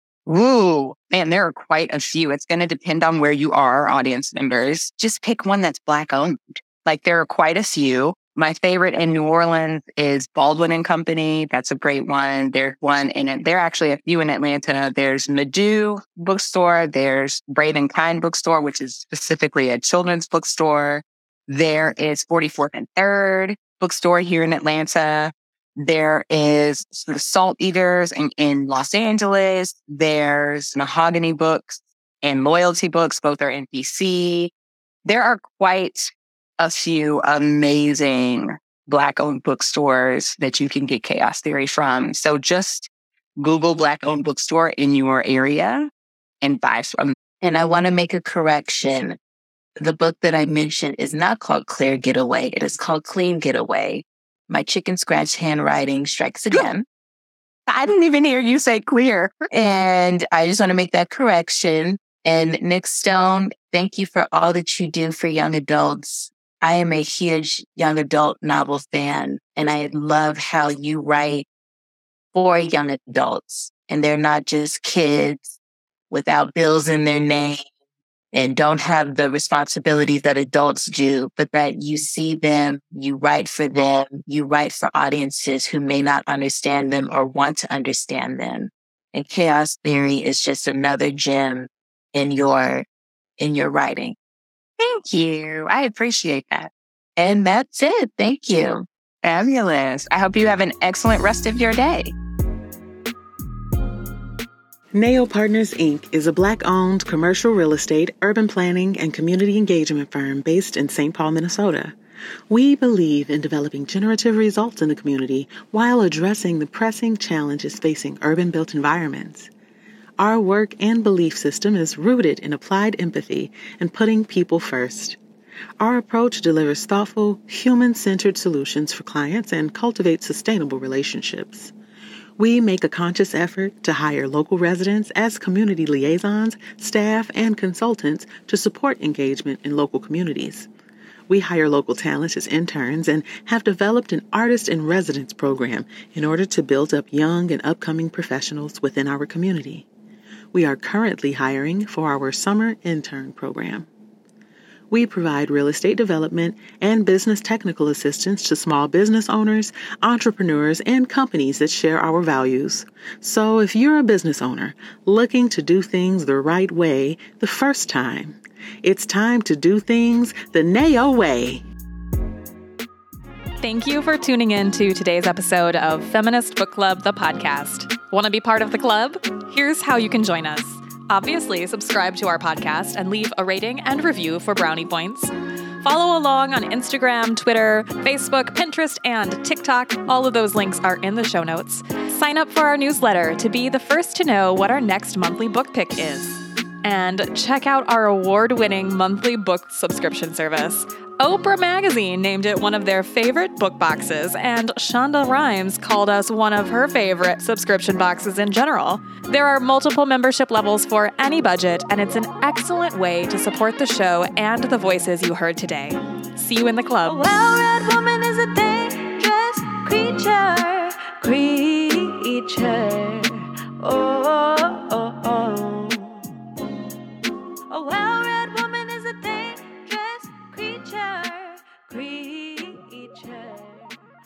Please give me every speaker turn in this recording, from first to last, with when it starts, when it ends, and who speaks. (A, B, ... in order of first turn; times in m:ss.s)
0:00.3-0:34.5 A
0:35.0-0:45.9 A
0:46.4-0:47.2 A
0:47.4-0:49.2 B
0:49.8-0:56.9 B
0:57.7-0:59.5 A
0:59.5-1:11.5 B
1:12.3-1:15.5 B
1:16.1-1:17.6 B
1:18.3-1:32.9 B
1:33.4-1:34.2 B
1:34.8-1:36.7 A
1:37.2-1:38.9 B
1:39.2-1:42.1 A
1:44.9-1:52.0 C
1:52.5-1:59.5 C
2:00.2-2:05.2 C
2:05.8-2:11.7 C
2:12.4-2:20.7 C
2:21.3-2:29.9 C
2:30.5-2:33.9 C
2:34.9-2:51.6 C
2:53.6-3:37.2 D
3:37.1-3:43.3 E
3:43.8-3:46.1 E
3:47.7-3:53.9 E